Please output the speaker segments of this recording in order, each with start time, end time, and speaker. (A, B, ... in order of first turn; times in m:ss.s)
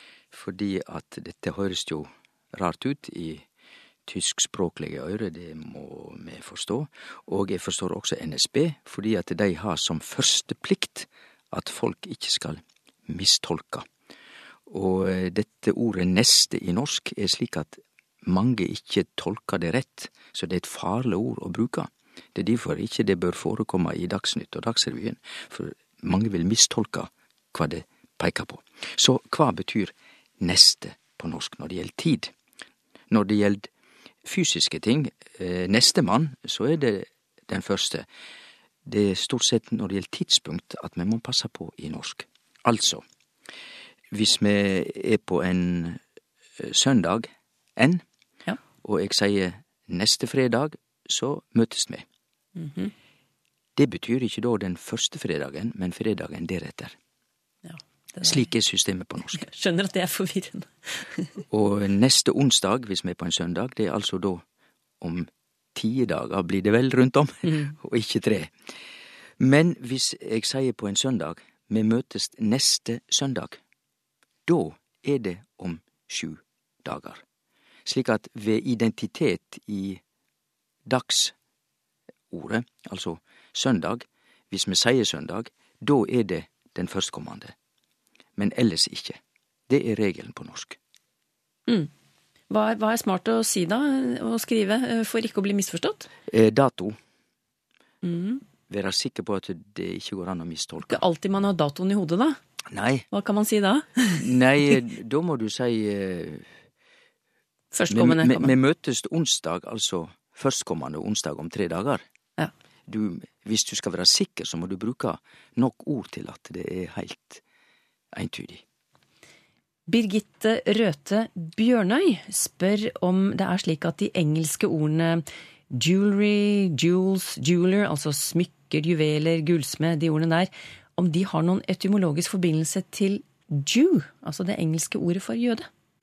0:00.3-0:03.4 A
0:04.1-0:13.8 A
0:14.7-0:32.3 A
0:33.1-0:33.7 A
0:34.2-0:38.0 A
0:38.8-0:43.0 A
0:44.1-0:46.0 A
0:46.6-0:48.0 A
0:48.8-0:52.0 A
0:52.6-0:52.9 B
0:53.8-0:56.9 A
0:57.6-0:58.4 B
0:58.2-0:59.4 A
0:59.3-1:01.3 B
1:01.5-1:04.4 A
1:05.0-1:08.5 A
1:07.4-1:07.7 B
1:09.4-1:13.6 A
1:14.5-1:17.2 A
1:17.8-1:20.0 A
1:20.8-1:21.3 A
1:22.3-1:27.5 A
1:28.4-1:30.8 A
1:32.5-1:36.1 B
1:36.3-1:37.0 A
1:38.0-1:38.4 B
1:38.7-1:41.0 A
1:40.9-1:42.4 B
1:42.7-1:43.1 A
1:43.1-1:44.2 B
1:44.2-1:46.4 A
1:47.7-1:48.5 B
1:47.9-1:52.0 A
1:52.9-1:57.4 A
1:58.1-1:58.6 A
1:59.9-2:15.7 B